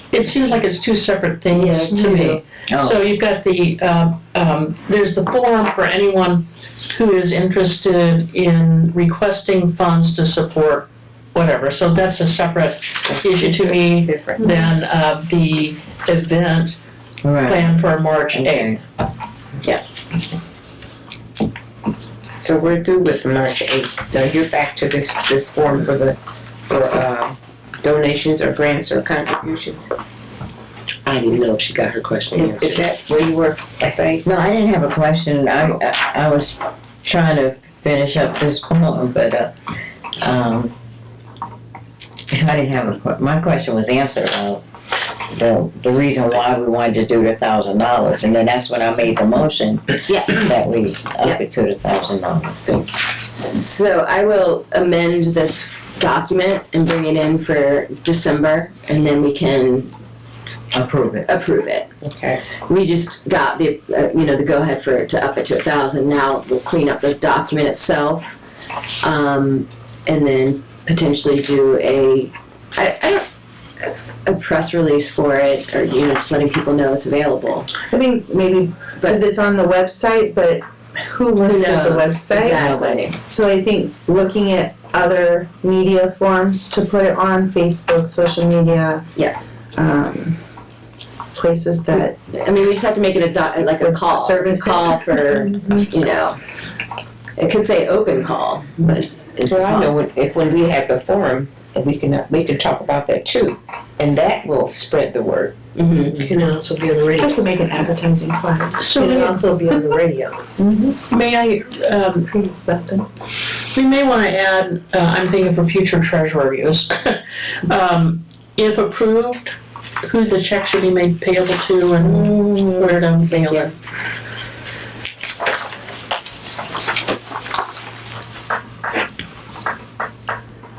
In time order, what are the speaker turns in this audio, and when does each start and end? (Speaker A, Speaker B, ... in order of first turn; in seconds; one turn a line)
Speaker A: 0.1-16.8
Speaker B: 1.5-2.4
Speaker C: 2.7-3.0
Speaker D: 13.1-14.7
Speaker C: 17.2-18.8
Speaker A: 17.4-18.8
Speaker D: 22.4-29.9
Speaker E: 31.1-32.9
Speaker D: 32.4-34.2
Speaker C: 34.2-39.5
Speaker C: 40.2-40.7
Speaker C: 42.3-44.6
Speaker C: 45.3-52.6
Speaker B: 50.1-50.5
Speaker B: 53.3-59.9
Speaker C: 60.7-61.3
Speaker B: 61.2-61.9
Speaker D: 62.0-62.4
Speaker B: 62.6-68.4
Speaker B: 69.0-73.3
Speaker B: 73.8-77.7
Speaker F: 77.9-82.6
Speaker B: 81.4-83.2
Speaker C: 82.5-83.1
Speaker F: 83.3-89.0
Speaker F: 89.7-90.3
Speaker F: 91.3-92.1
Speaker B: 92.3-96.4
Speaker F: 93.8-95.9
Speaker B: 97.4-99.9
Speaker D: 99.5-105.6
Speaker B: 105.8-106.2
Speaker E: 106.1-107.4
Speaker F: 107.1-111.0
Speaker A: 108.8-109.9
Speaker A: 111.1-112.3
Speaker F: 112.3-113.0
Speaker A: 113.7-123.7
Speaker B: 122.0-123.7